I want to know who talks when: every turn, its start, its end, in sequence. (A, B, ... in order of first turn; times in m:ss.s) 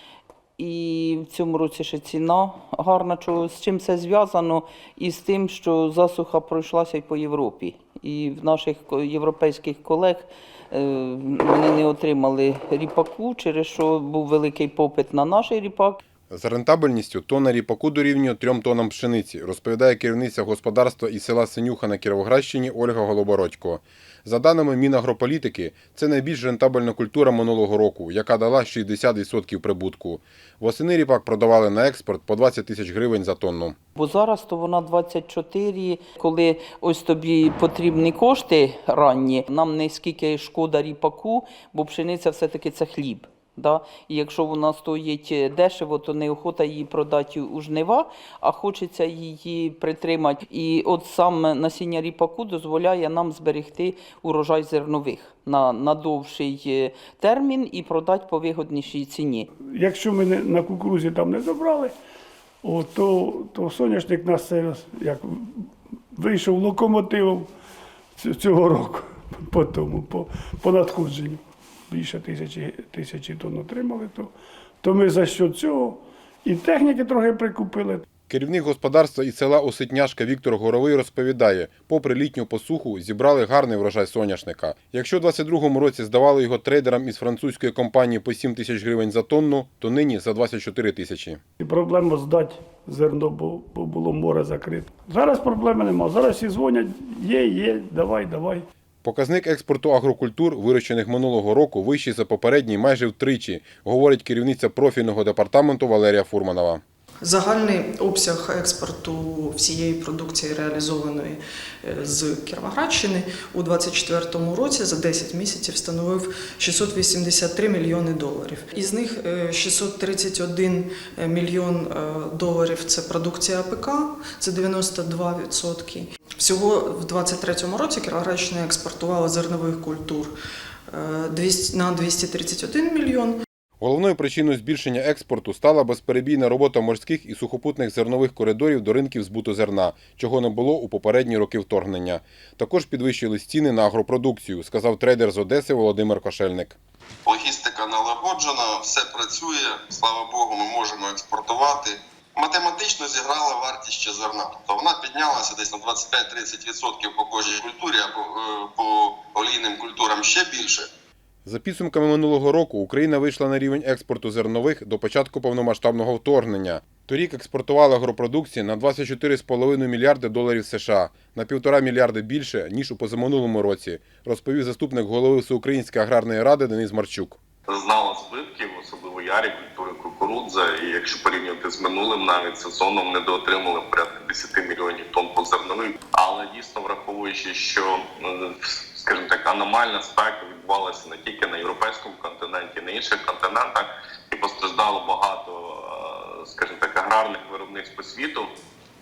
0:00.6-0:16.0 A
0:16.3-0:33.8 B
0:34.0-0:59.5 A
0:59.7-1:02.0 C
1:02.6-1:07.5 C
1:08.2-1:18.0 C
1:18.3-1:31.4 B
1:31.6-1:38.7 C
1:39.0-1:46.8 B
1:47.2-2:10.3 D
2:10.9-2:13.4 D
2:13.8-2:26.8 B
2:27.3-2:40.9 E
2:41.4-2:57.4 B
2:57.7-3:18.5 F